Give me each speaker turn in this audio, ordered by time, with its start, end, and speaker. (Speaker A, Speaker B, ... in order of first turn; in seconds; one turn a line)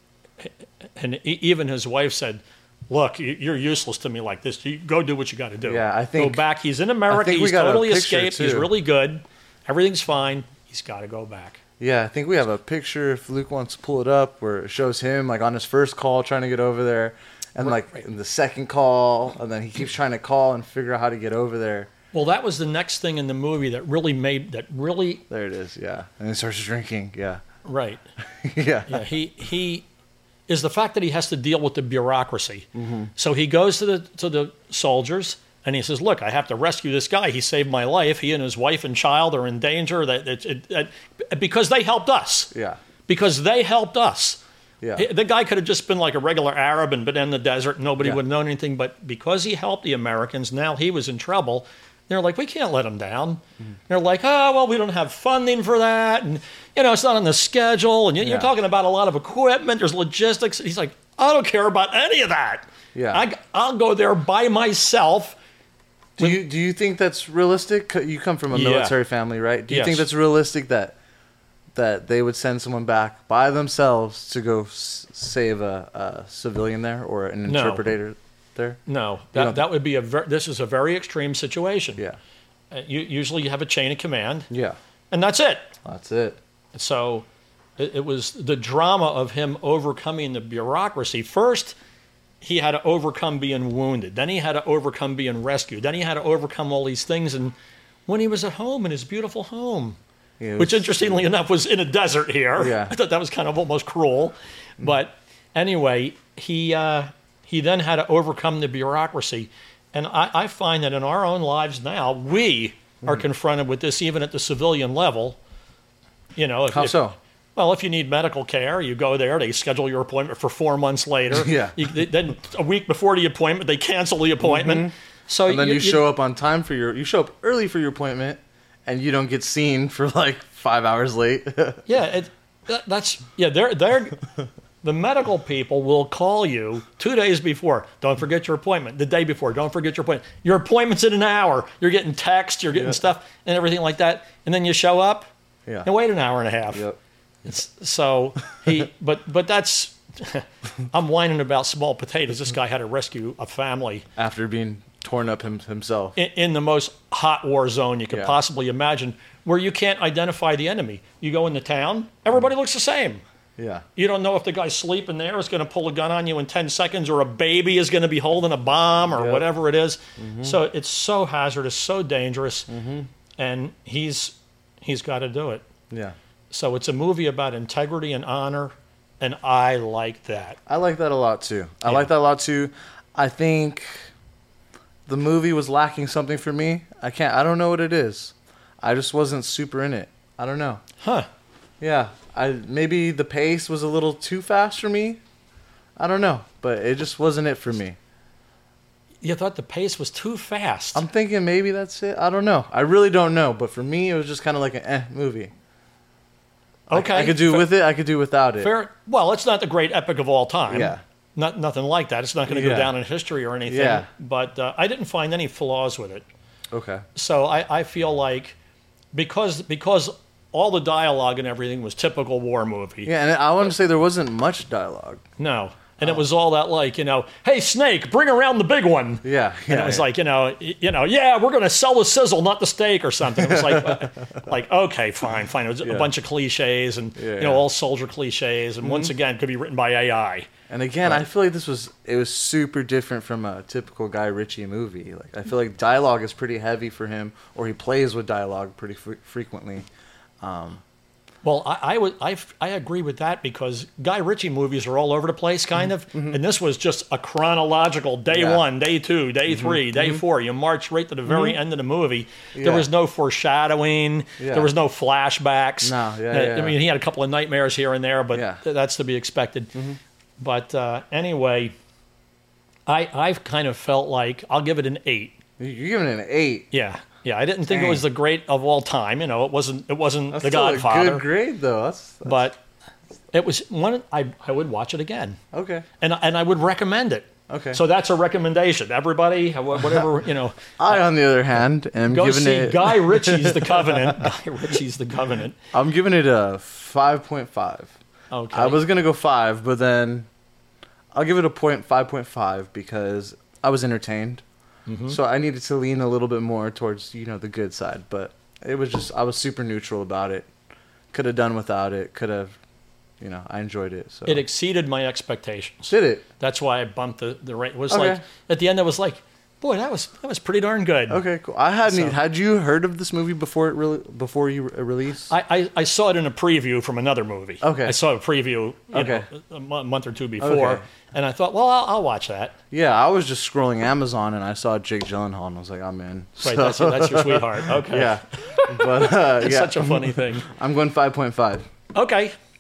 Speaker A: 0.4-11.6
Speaker B: 5.6-6.4
Speaker B: 7.1-8.7
Speaker B: 11.8-21.9
Speaker A: 17.6-18.0
Speaker A: 22.1-25.2
Speaker B: 25.3-27.4
Speaker A: 27.6-28.0
Speaker B: 28.4-29.0
Speaker A: 28.9-29.9
Speaker A: 30.5-42.5
Speaker B: 32.8-33.1
Speaker B: 42.5-42.8
Speaker A: 43.1-44.4
Speaker B: 44.8-45.1
Speaker A: 44.9-65.4
Speaker B: 58.2-58.5
Speaker B: 62.9-63.2
Speaker B: 66.2-71.0
Speaker A: 68.5-68.9
Speaker A: 69.7-70.0
Speaker B: 71.8-78.8
Speaker A: 77.5-77.8
Speaker A: 78.8-82.0
Speaker B: 79.3-79.6
Speaker A: 82.7-84.5
Speaker B: 84.5-84.8
Speaker A: 85.1-85.7
Speaker B: 85.8-86.4
Speaker A: 86.7-87.2
Speaker A: 87.8-91.8
Speaker A: 92.4-97.5
Speaker A: 98.1-100.0
Speaker B: 100.4-101.2
Speaker A: 100.6-115.4
Speaker B: 102.6-102.9
Speaker A: 116.3-117.0
Speaker B: 116.7-117.1
Speaker A: 117.5-126.0
Speaker B: 121.3-121.8
Speaker B: 124.4-124.9
Speaker B: 125.5-131.8
Speaker A: 131.8-134.3
Speaker A: 134.8-145.2
Speaker B: 142.7-143.0
Speaker A: 145.8-146.8
Speaker B: 146.7-147.0
Speaker A: 147.4-154.1
Speaker B: 154.2-156.2
Speaker A: 156.2-163.2
Speaker B: 158.1-158.3
Speaker B: 163.6-163.8
Speaker A: 163.9-172.7
Speaker B: 169.1-169.4
Speaker B: 170.2-170.6
Speaker B: 172.7-173.1
Speaker A: 173.4-175.6
Speaker B: 175.9-176.1
Speaker A: 176.5-180.6
Speaker B: 180.7-184.1
Speaker B: 185.1-190.8
Speaker A: 191.0-191.3
Speaker B: 191.8-195.2
Speaker B: 196.0-197.9
Speaker A: 199.2-201.1
Speaker B: 200.9-205.5
Speaker A: 206.9-207.7
Speaker B: 206.9-208.7
Speaker A: 208.6-216.2
Speaker B: 210.7-211.0
Speaker B: 212.5-212.9
Speaker B: 213.7-214.1
Speaker B: 216.7-217.0
Speaker A: 217.2-218.6
Speaker A: 219.1-223.1
Speaker B: 223.0-225.2
Speaker A: 225.4-240.5
Speaker B: 229.2-230.1
Speaker B: 233.4-234.3
Speaker B: 235.8-236.1
Speaker B: 237.2-237.7
Speaker B: 238.8-239.1
Speaker B: 240.7-249.8
Speaker B: 250.4-250.8
Speaker A: 251.4-269.8
Speaker B: 256.1-256.4
Speaker B: 258.3-258.6
Speaker B: 259.5-260.2
Speaker B: 261.2-261.6
Speaker B: 262.5-262.9
Speaker B: 264.4-264.7
Speaker B: 265.8-266.8
Speaker B: 268.3-268.6
Speaker B: 269.7-270.0
Speaker A: 270.4-271.7
Speaker A: 272.9-275.4
Speaker B: 275.6-276.7
Speaker A: 276.7-281.2
Speaker B: 277.6-278.1
Speaker B: 280.3-282.5
Speaker A: 282.2-282.6
Speaker A: 283.3-285.4
Speaker B: 285.5-285.9
Speaker A: 286.0-290.6
Speaker B: 287.5-287.8
Speaker B: 290.8-294.3
Speaker A: 292.1-295.6
Speaker B: 295.7-297.9
Speaker A: 298.3-298.8
Speaker B: 298.5-300.3
Speaker B: 301.1-304.4
Speaker A: 304.9-305.2
Speaker B: 305.1-310.5
Speaker B: 311.1-312.6
Speaker B: 313.2-314.4
Speaker A: 314.3-321.2
Speaker B: 315.9-316.2
Speaker B: 317.9-318.2
Speaker B: 321.1-325.3
Speaker A: 321.9-322.1
Speaker A: 325.3-332.5
Speaker B: 327.6-328.0
Speaker B: 328.9-329.3
Speaker B: 330.4-330.8
Speaker B: 332.7-341.6
Speaker A: 336.4-340.5
Speaker A: 341.9-342.3